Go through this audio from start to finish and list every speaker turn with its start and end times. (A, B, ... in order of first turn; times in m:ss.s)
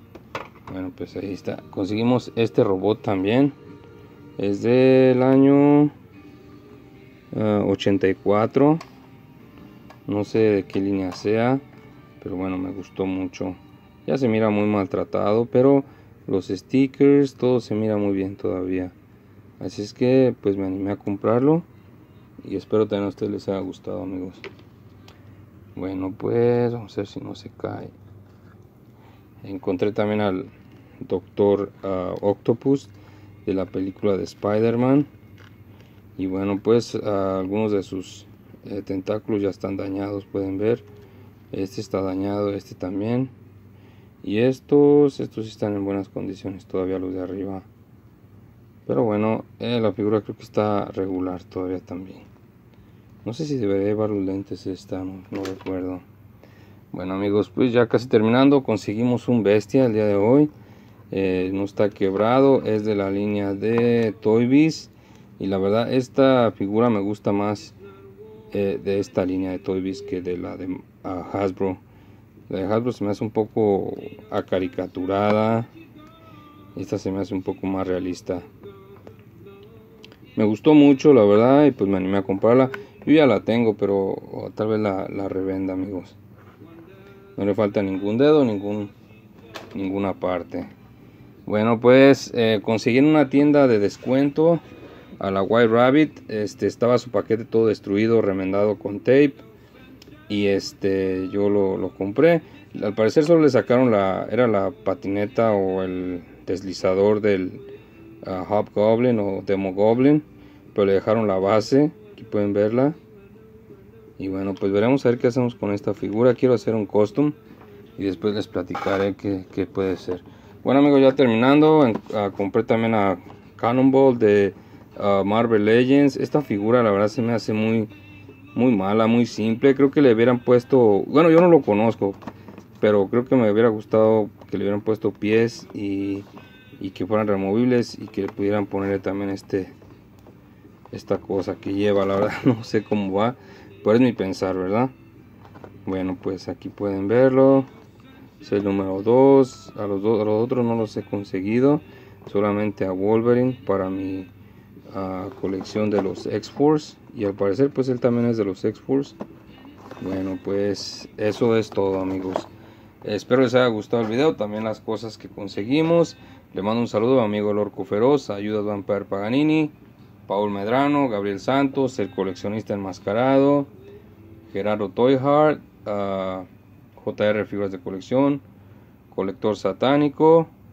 0:00.7-0:03.6 A
0:04.4-0:05.9 A
0:07.3-0:08.8 A
0:10.1-0:11.6 A
0:12.2-0:18.9 A
0:19.6-0:21.7 A
0:22.4-0:24.4 A
0:25.8-0:27.9 A
0:29.4-0:32.9 A
0:33.4-0:35.1 A
0:36.2-0:40.8 A
0:41.5-0:43.3 A
0:44.2-0:47.7 A
0:48.8-0:52.3 A
0:53.2-0:56.0 A
0:56.9-1:00.5 A
1:01.1-1:07.8 A
1:08.5-1:11.8 A
1:12.5-1:15.7 A
1:16.7-1:18.5 A
1:20.4-1:26.2 A
1:27.4-1:28.9 A
1:29.7-1:30.7 A
1:31.4-1:34.6 A
1:35.2-1:39.4 A
1:40.3-1:47.6 A
1:48.2-1:53.0 A
1:54.2-1:57.4 A
1:58.0-2:07.9 A
2:08.6-2:12.2 A
2:12.8-2:19.8 A
2:20.9-2:24.9 A
2:25.8-2:27.7 A
2:28.4-2:34.3 A
2:34.9-2:39.2 A
2:40.0-2:42.5 A
2:43.0-2:49.7 A
2:50.3-2:53.7 A
2:54.5-2:58.4 A
2:59.1-3:00.5 A